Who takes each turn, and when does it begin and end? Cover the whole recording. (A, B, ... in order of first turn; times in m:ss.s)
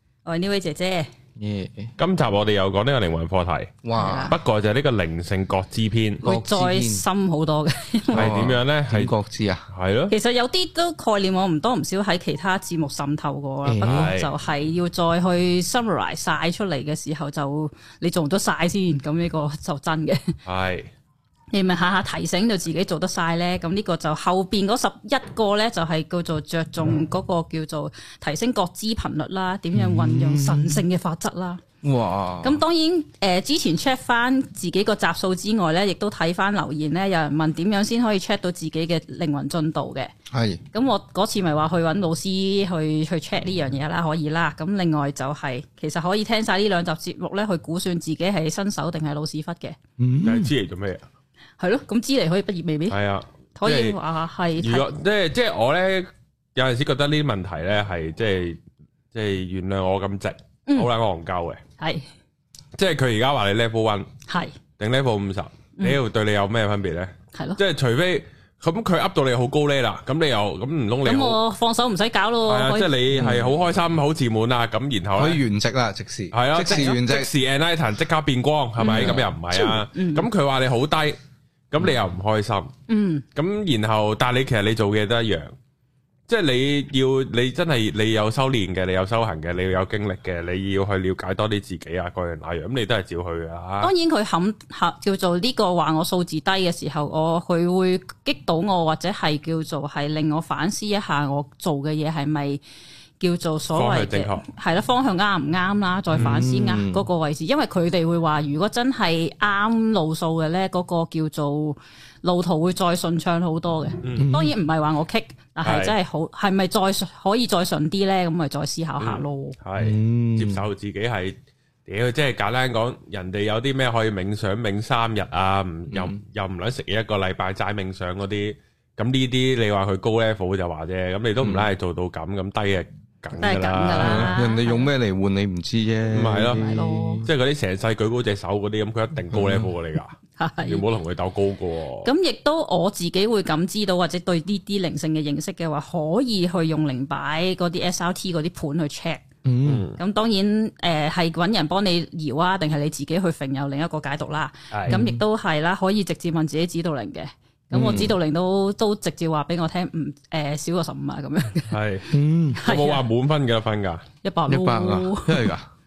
0:00.2-0:01.1 A
0:01.4-0:01.9 B
0:02.0-0:06.2 C
0:03.8-0:04.4 B
0:03.9-0:04.4 A
0:06.2-0:07.0 B
0:06.2-0:08.3 A
0:08.1-0:09.1 C
0:08.1-0:09.7 B
0:09.7-0:10.1 C
0:10.1-0:20.3 A
0:13.6-0:14.1 B
0:13.8-0:14.3 C
0:20.4-0:20.9 C
0:21.5-0:31.6 A
0:29.7-0:30.8 B
0:31.8-0:32.6 B
0:32.4-0:40.1 A
0:40.3-0:40.6 B
0:40.7-0:49.8 A
0:50.0-0:50.5 B
0:50.2-0:51.0 C
0:51.6-0:53.0 A
0:52.9-0:54.0 C
0:53.6-0:54.9 A
0:54.6-0:58.6 C
0:59.1-1:01.6 C
1:01.8-1:02.1 A
1:02.7-1:04.1 C
1:04.3-1:04.6 A
1:04.8-1:11.4 C
1:07.3-1:07.6 A
1:11.0-1:12.9 A
1:12.5-1:15.4 C
1:13.1-1:13.5 B
1:15.1-1:17.3 B
1:16.3-1:21.2 C
1:16.6-1:17.0 A
1:18.8-1:20.2 A
1:18.9-1:19.2 B
1:21.7-1:22.7 C
1:22.9-1:23.2 A
1:23.3-1:25.5 C
1:26.3-1:33.9 C
1:33.8-1:42.6 A
1:43.2-1:59.6 A
1:43.7-1:44.5 C
1:46.1-1:47.1 B
1:54.0-1:54.3 C
1:54.2-1:54.6 B
1:55.6-1:55.9 C
1:59.0-2:14.3 C
1:59.8-2:00.6 B
2:05.9-2:06.2 B
2:11.4-2:11.6 B
2:13.4-2:14.9 A
2:14.0-2:17.3 B
2:16.1-2:16.6 C
2:16.5-2:17.2 A
2:17.2-2:22.1 C
2:19.3-2:19.7 B
2:20.4-2:20.8 A
2:22.0-2:29.2 A
2:29.4-2:29.9 B
2:29.6-2:30.0 C
2:30.0-2:41.8 A
2:34.7-2:35.0 C
2:34.9-2:35.2 B
2:37.7-2:38.1 B
2:41.7-2:42.1 C
2:42.1-2:42.6 B
2:42.6-2:43.0 A
2:42.6-2:44.0 C
2:44.2-2:45.5 A
2:44.5-2:45.7 B